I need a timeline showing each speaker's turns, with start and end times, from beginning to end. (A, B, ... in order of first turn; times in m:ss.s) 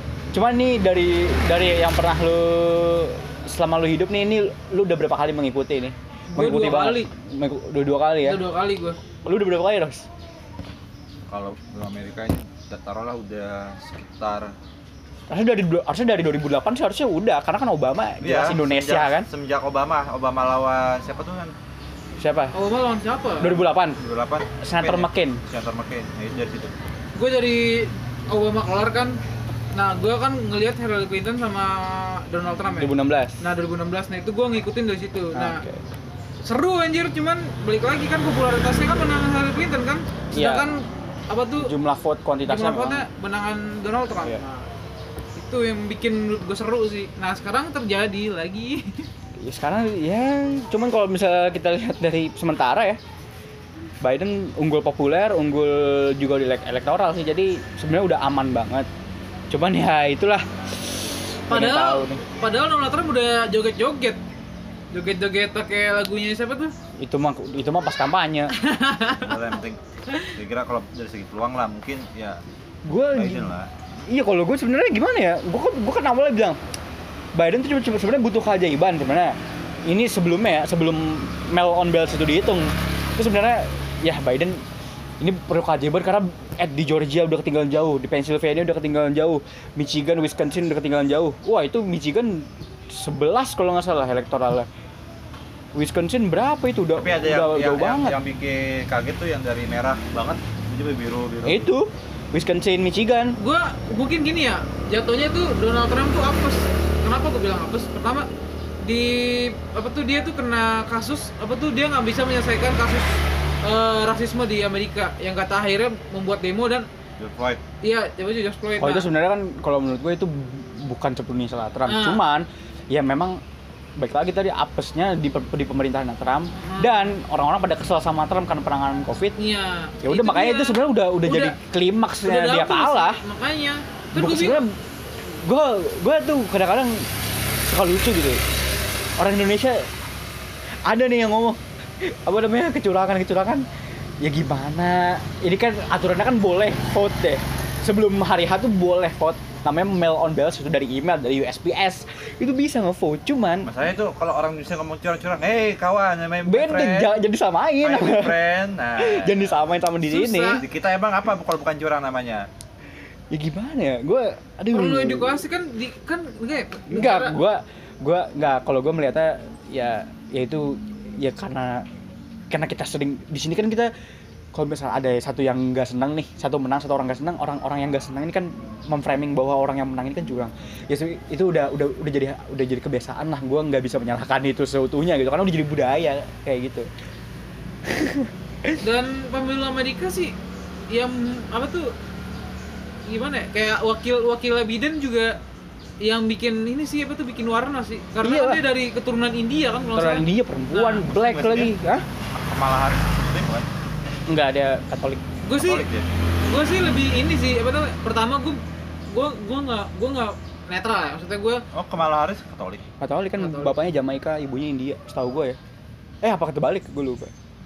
0:00.3-0:08.4 A
0:06.3-0:07.1 B
0:08.2-0:09.0 B
0:09.2-0:10.1 A
0:11.3-0:14.5 C
0:15.3-0:19.3 A
0:18.2-0:21.5 C
0:22.2-0:22.5 A
0:22.5-0:23.6 B
0:23.4-0:24.0 A
0:23.4-0:26.8 C
0:24.6-0:25.4 A
0:27.2-0:29.2 B
0:29.7-0:35.6 B
0:32.7-0:33.4 A
0:35.3-0:35.8 A
0:36.4-0:41.7 B
0:40.3-0:40.7 A
0:41.6-0:43.1 A
0:42.4-0:44.7 B
0:45.4-0:49.1 B
0:49.4-0:53.0 A
0:54.0-0:58.9 A
0:59.5-1:02.2 A
1:01.5-1:04.2 B
1:04.9-1:06.7 B
1:07.0-1:08.5 A
1:08.5-1:09.4 B
1:09.1-1:09.8 C
1:10.3-1:12.4 C
1:12.9-1:13.5 A
1:13.1-1:13.7 C
1:14.1-1:16.6 A
1:17.4-1:24.6 A
1:25.2-1:34.7 A
1:35.8-1:38.2 A
1:37.0-1:41.6 C
1:41.4-1:43.4 A
1:43.4-1:48.3 B
1:48.8-1:56.9 B
1:57.2-1:57.6 C
1:57.8-1:59.1 B
1:58.8-2:03.4 A
2:01.9-2:02.2 B
2:04.0-2:09.4 A
2:06.6-2:07.1 B
2:09.4-2:11.6 B
2:10.0-2:13.2 A
2:12.2-2:14.6 B
2:14.1-2:17.1 A
2:17.6-2:18.4 A
2:19.2-2:19.9 A
2:20.9-2:23.6 A
2:24.2-2:33.7 A
2:33.6-2:37.2 C
2:36.4-2:38.4 A
2:37.8-2:39.6 C
2:39.0-2:40.6 A
2:40.1-2:40.6 B
2:40.6-2:42.4 C
2:43.3-2:45.4 A
2:44.7-2:47.4 B
2:46.9-2:51.9 A
2:52.5-2:53.9 A
2:54.5-3:06.9 A
3:07.8-3:08.8 A
3:08.8-3:10.4 B
3:10.9-3:11.9 B
3:13.1-3:15.4 B
3:16.0-3:21.1 B
3:18.2-3:18.6 A
3:19.9-3:22.0 A
3:21.1-3:21.7 C
3:22.4-3:23.7 C
3:24.3-3:25.2 A
3:25.4-3:25.9 B
3:25.6-3:26.1 C
3:26.4-3:31.6 B
3:31.7-3:32.8 C
3:33.0-3:35.6 A
3:33.4-3:33.8 B
3:36.2-3:37.3 A